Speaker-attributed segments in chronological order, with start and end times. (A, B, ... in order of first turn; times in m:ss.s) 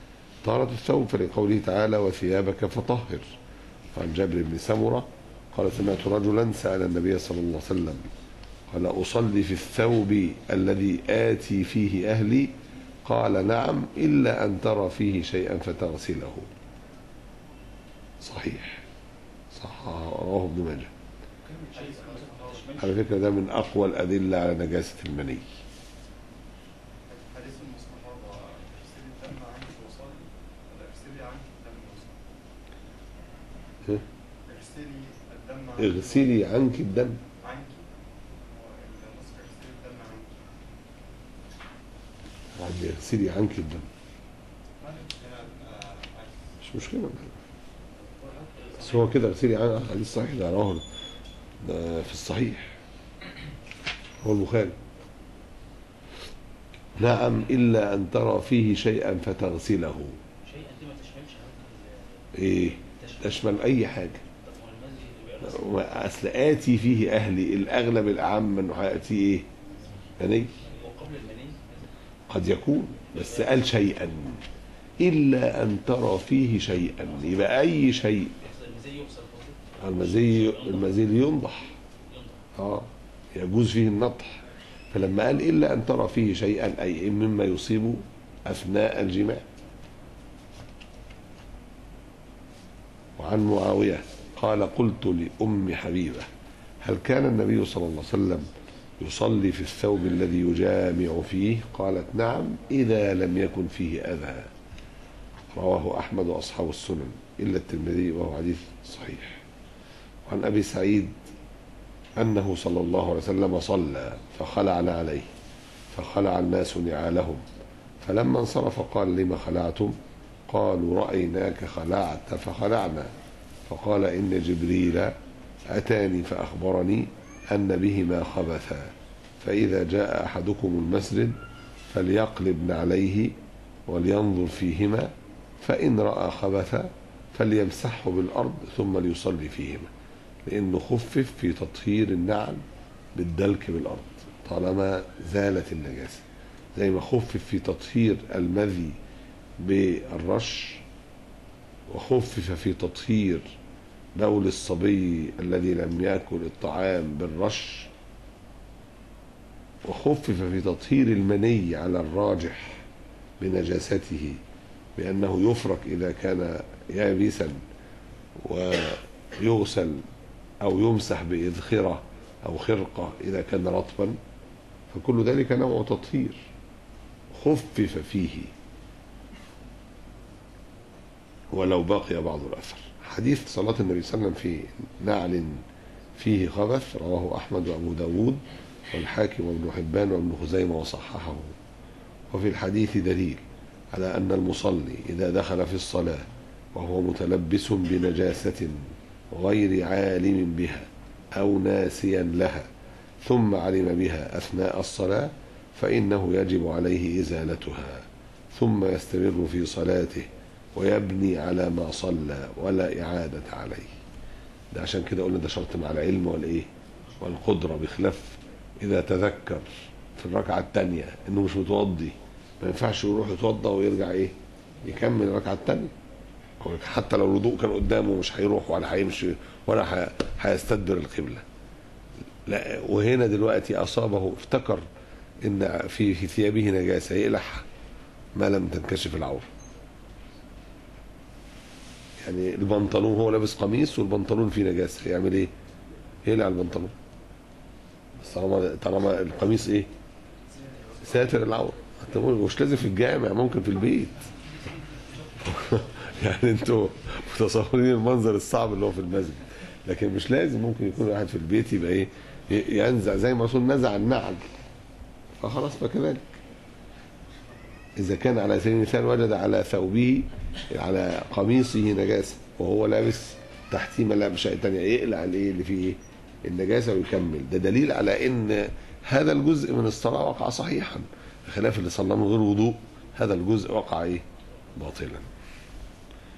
0:00.4-0:03.3 A
0:03.9-0:08.0 A
0:08.7-0:12.5 A
0:13.0-0:16.5 A
0:18.2-0:18.8 A
0:19.5-0:20.9 A
0:21.7-0:23.1 B
0:21.7-0:22.6 C
0:22.8-0:25.5 A
0:27.1-0:32.1 C
0:34.4-0:36.2 C
0:35.8-0:37.2 A
0:37.4-0:37.8 C
0:38.5-0:40.3 C
0:42.6-0:43.9 A
0:44.8-0:46.3 C
0:46.6-0:47.3 A
0:48.0-0:49.2 B
0:48.8-0:50.8 A
0:51.6-0:52.7 A
0:54.2-0:54.8 A
0:57.0-1:00.2 A
1:00.4-1:03.7 B
1:02.4-1:04.2 A
1:04.4-1:05.9 B
1:05.4-1:09.5 A
1:10.2-1:10.5 A
1:10.6-1:11.9 B
1:12.3-1:14.4 A
1:13.1-1:13.6 B
1:15.0-1:18.4 A
1:17.0-1:17.7 B
1:18.4-1:21.3 B
1:19.8-1:21.7 A
1:22.1-1:22.5 B
1:22.6-1:24.4 A
1:24.9-1:29.4 A
1:33.2-1:36.3 A
1:36.8-1:44.5 A
1:45.5-1:49.4 A
1:50.2-1:51.2 A
1:52.2-1:55.3 A
1:55.9-1:57.4 A
1:58.0-2:00.0 A
2:00.5-2:03.1 A
2:03.7-2:05.2 A
2:05.7-2:11.4 A
2:11.9-2:13.4 A
2:13.9-2:19.9 A
2:20.4-2:22.6 A
2:23.1-2:26.2 A
2:26.8-2:29.0 A
2:29.6-2:30.8 A
2:31.9-2:33.6 A
2:34.2-2:37.9 A
2:39.8-2:42.8 A
2:43.4-2:44.4 A
2:45.0-2:47.6 A
2:48.4-2:50.0 A
2:50.6-2:54.2 A
2:54.9-2:56.5 A
2:57.3-2:58.5 A
3:01.5-3:05.6 A
3:06.2-3:11.6 A
3:12.3-3:22.7 A
3:23.2-3:33.9 A
3:34.7-3:36.7 A
3:37.2-3:45.9 A
3:46.6-3:51.4 A
3:52.5-3:54.8 A
3:55.4-3:57.6 A
3:58.4-3:59.5 A
4:02.2-4:05.5 A
4:06.2-4:06.9 A
4:08.2-4:09.9 A
4:11.0-4:14.2 A
4:15.4-4:24.4 A
4:25.4-4:26.3 A
4:28.0-4:44.2 A
4:44.8-4:45.3 A